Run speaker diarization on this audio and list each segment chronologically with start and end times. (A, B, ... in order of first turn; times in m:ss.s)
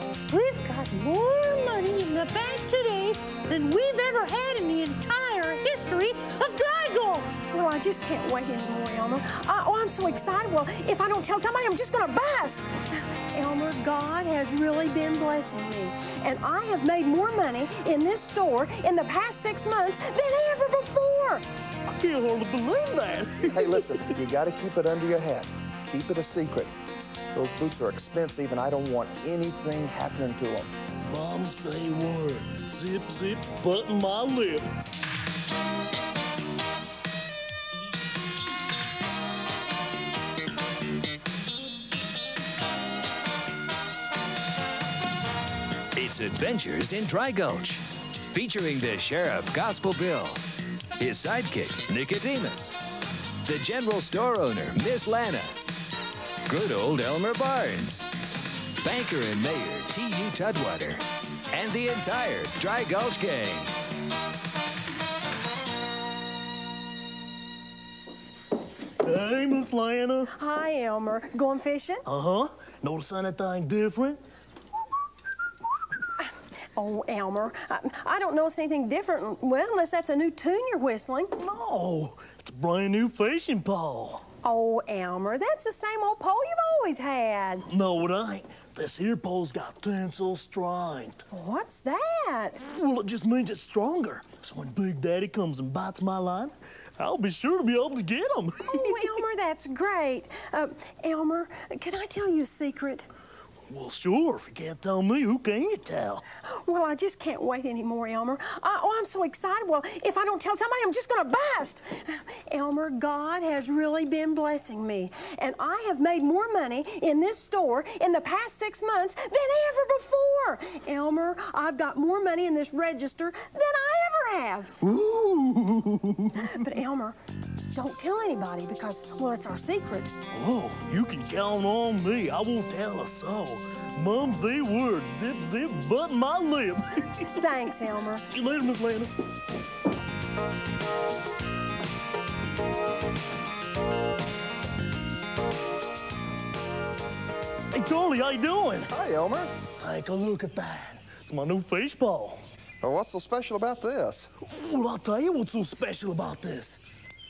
0:00.3-0:07.3 A
0:07.5-0:21.4 B
0:21.9-0:24.0 C
0:23.5-0:26.7 D
0:27.3-0:30.7 D
0:31.1-0:34.7 C
0:45.9-0:50.4 E
0:51.0-0:52.7 E
0:53.4-0:55.6 E
0:56.5-0:58.0 E
0:58.8-1:01.0 E
1:01.5-1:03.7 E
1:09.0-1:10.3 C
1:10.4-1:12.0 B
1:12.0-1:14.2 C
1:16.7-1:21.3 B
1:21.4-1:24.2 C
1:24.4-1:27.6 B
1:27.7-1:31.2 C
1:31.3-1:32.6 B
1:32.7-1:39.2 C
1:38.7-1:43.1 B
1:43.7-1:46.2 C
1:46.4-2:04.8 B
2:04.8-2:06.5 C
2:06.4-2:07.2 B
2:07.7-2:10.1 B
2:10.3-2:17.2 C
2:17.4-2:18.2 B
2:18.2-2:19.2 C
2:27.7-2:28.9 C
2:28.9-2:29.5 D
2:29.8-2:32.4 C
2:32.8-2:34.3 D
2:34.4-2:36.8 C